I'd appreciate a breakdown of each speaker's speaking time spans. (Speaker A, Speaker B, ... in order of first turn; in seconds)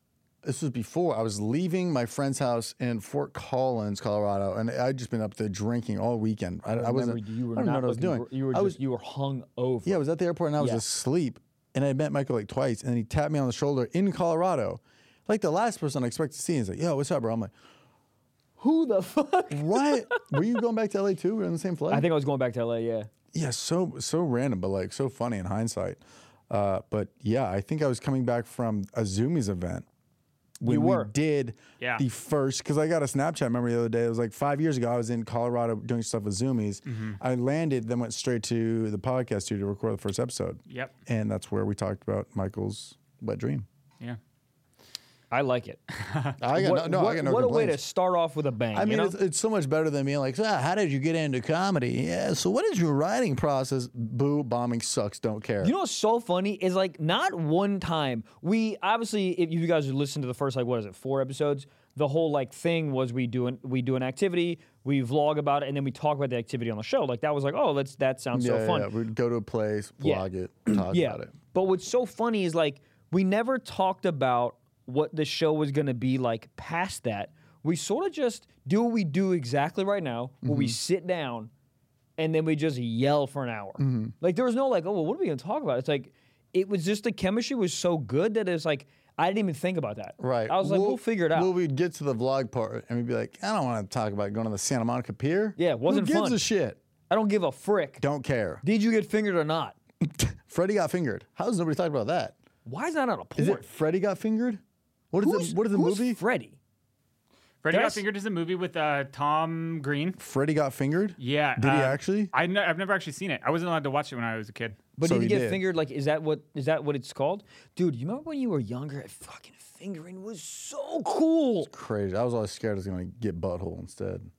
Speaker A: 0.4-8.8, 9.9-17.5, 19.5-22.1, 23.3-29.9, 30.6-43.6, 46.4-47.8, 48.7-55.7, 68.3-71.3, 80.4-80.8, 83.8-84.1, 90.2-96.8, 98.0-98.6, 100.0-102.4, 103.4-106.2, 110.2-112.3, 115.0-115.6, 121.7-124.3
Speaker B: 6.7-10.0, 10.6-10.8, 18.6-20.4, 21.9-23.1, 30.6-31.1, 45.3-45.8, 46.5-49.1, 55.6-68.9, 70.0-81.5, 82.2-91.5, 95.6-96.4, 97.1-98.0, 98.6-99.8, 102.7-103.7, 105.2-106.6, 107.7-108.0, 115.0-121.7
Speaker C: 36.9-37.2, 46.0-46.4, 107.6-110.2, 111.2-114.8